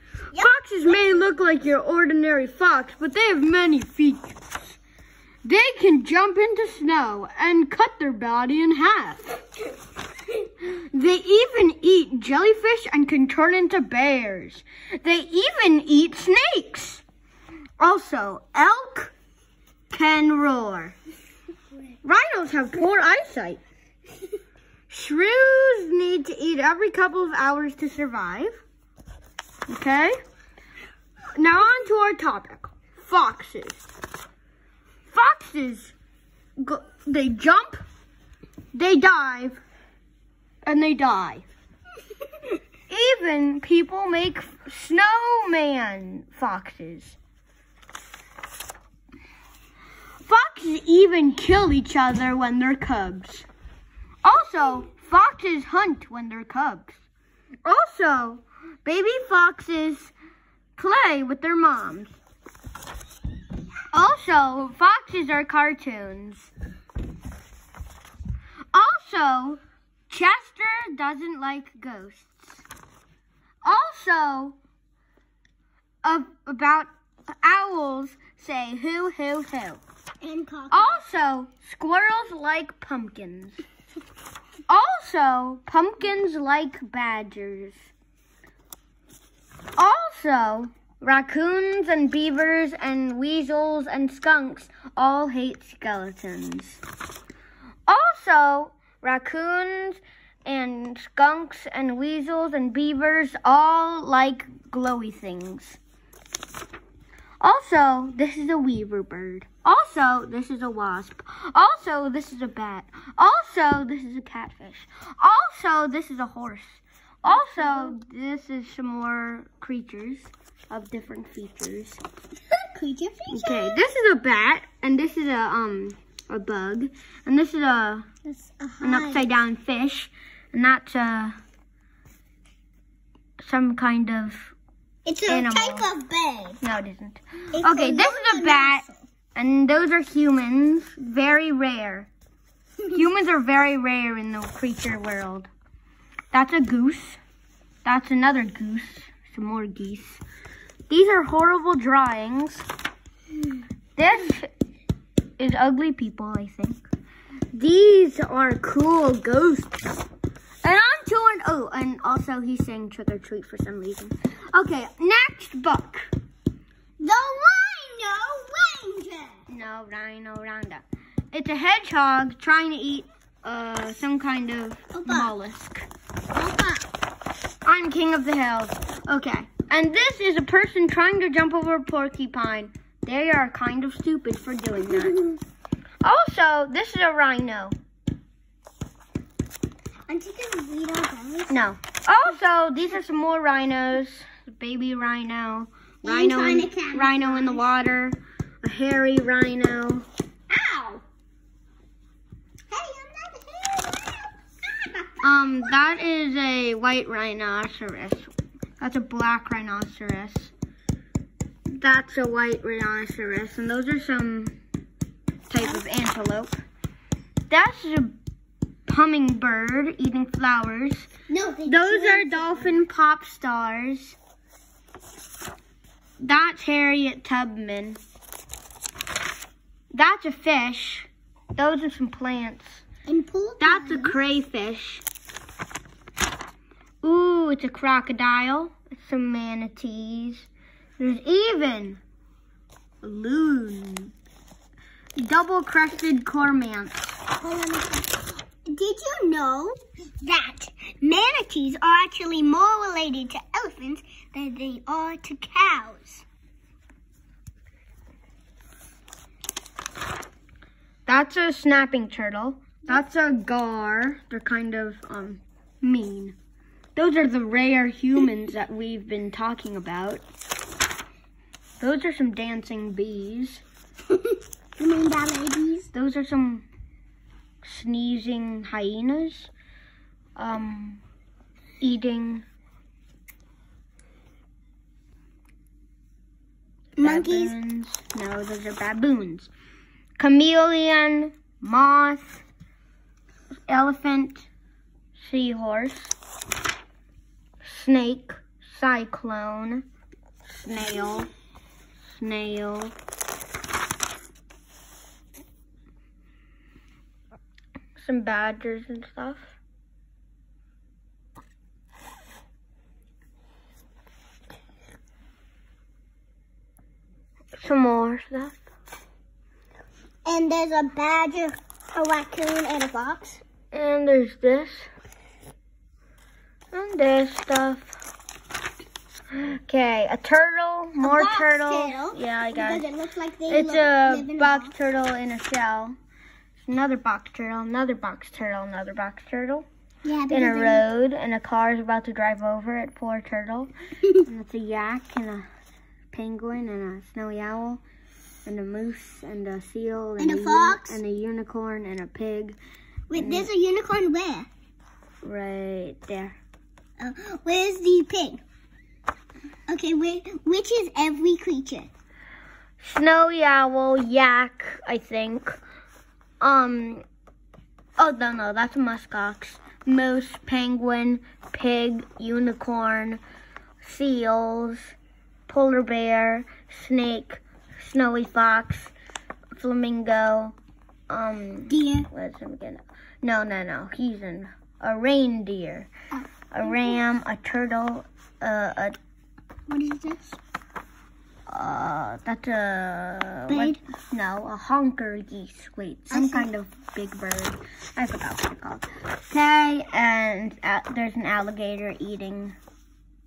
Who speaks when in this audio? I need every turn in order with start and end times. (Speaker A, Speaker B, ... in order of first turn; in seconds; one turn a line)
Speaker A: 0.3-1.4
Speaker B: 0.3-4.8
Speaker B: 5.5-9.4
Speaker B: 10.6-17.0
Speaker B: 17.8-19.1
Speaker B: 19.9-20.9
Speaker B: 22.0-23.6
Speaker B: 24.9-28.6
Speaker B: 29.7-30.1
Speaker B: 31.4-33.8
Speaker B: 35.1-36.0
Speaker B: 36.6-37.8
Speaker B: 38.7-39.6
Speaker B: 40.6-41.5
Speaker B: 42.9-47.2
Speaker B: 50.2-53.5
Speaker B: 54.2-57.0
Speaker B: 57.6-60.1
Speaker B: 60.8-62.2
Speaker B: 63.9-66.5
Speaker B: 68.7-72.7
Speaker B: 73.6-74.6
Speaker B: 76.0-76.9
Speaker B: 77.4-79.8
Speaker A: 80.2-81.0
Speaker B: 80.7-83.6
Speaker B: 84.7-87.9
Speaker B: 89.8-96.8
Speaker B: 97.9-105.8
Speaker B: 107.4-122.0
Speaker A: 117.3-117.9
Speaker A: 122.5-123.8
Speaker B: 123.3-128.1
Speaker A: 128.3-129.3
Speaker B: 128.8-131.4
Speaker B: 133.4-134.6
Speaker A: 135.1-136.6
Speaker B: 135.3-135.9
Speaker B: 136.6-138.8
Speaker A: 137.5-139.0
Speaker B: 139.3-142.1
Speaker B: 142.9-145.5
Speaker B: 146.3-147.2
Speaker B: 147.8-150.2
Speaker B: 150.9-152.7
Speaker B: 154.0-154.5
Speaker B: 155.4-156.8
Speaker B: 157.5-159.8
Speaker B: 160.6-166.1
Speaker A: 167.0-169.4
Speaker B: 169.5-175.9
Speaker A: 174.9-175.3
Speaker A: 176.3-176.9
Speaker B: 177.7-185.2
Speaker A: 184.9-185.4
Speaker B: 186.0-187.7
Speaker A: 190.1-191.5
Speaker B: 191.5-200.1
Speaker A: 196.0-197.7
Speaker A: 200.5-201.0
Speaker A: 202.7-205.7
Speaker B: 205.2-210.5
Speaker B: 211.7-214.6
Speaker B: 215.5-216.6
Speaker B: 217.5-218.2
Speaker B: 218.9-221.1
Speaker A: 221.3-222.8
Speaker B: 221.7-224.2
Speaker B: 226.2-228.0
Speaker B: 229.9-232.8
Speaker A: 233.1-234.2
Speaker B: 233.6-235.0
Speaker B: 237.0-240.5
Speaker B: 241.0-242.0
Speaker B: 243.0-244.1
Speaker B: 245.2-247.2
Speaker A: 247.4-256.2
Speaker B: 261.1-266.4
Speaker B: 267.0-270.2
Speaker B: 271.8-273.6
Speaker A: 274.1-275.9
Speaker B: 275.9-276.7
Speaker B: 277.6-279.5
Speaker B: 280.4-281.0
Speaker B: 281.8-282.5
Speaker A: 287.0-287.5
Speaker B: 287.0-289.5
Speaker B: 290.2-292.4
Speaker B: 293.7-294.5
Speaker B: 295.2-296.1
Speaker B: 297.6-299.8
Speaker B: 300.4-301.3
Speaker B: 302.1-302.9
Speaker B: 308.0-309.6
Speaker B: 317.6-318.6
Speaker A: 320.3-323.4
Speaker B: 323.7-324.9
Speaker B: 326.7-328.0
Speaker B: 329.3-332.9
Speaker A: 331.0-334.7
Speaker B: 333.5-336.0
Speaker B: 336.6-339.7
Speaker A: 340.0-340.9
Speaker B: 340.3-345.5
Speaker B: 346.1-347.8
Speaker B: 348.5-352.6
Speaker A: 350.2-351.0
Speaker A: 353.1-354.5
Speaker B: 353.2-353.5
Speaker B: 355.2-356.4
Speaker A: 357.0-358.4
Speaker A: 359.7-361.9
Speaker B: 362.8-365.5
Speaker B: 366.4-367.0
Speaker B: 368.0-373.2
Speaker B: 373.8-374.9
Speaker B: 375.5-378.9
Speaker B: 379.5-380.6
Speaker B: 381.1-385.9
Speaker A: 381.7-382.1
Speaker B: 386.5-389.0
Speaker A: 389.7-390.4
Speaker B: 391.5-402.6
Speaker A: 393.5-393.8
Speaker A: 396.1-396.5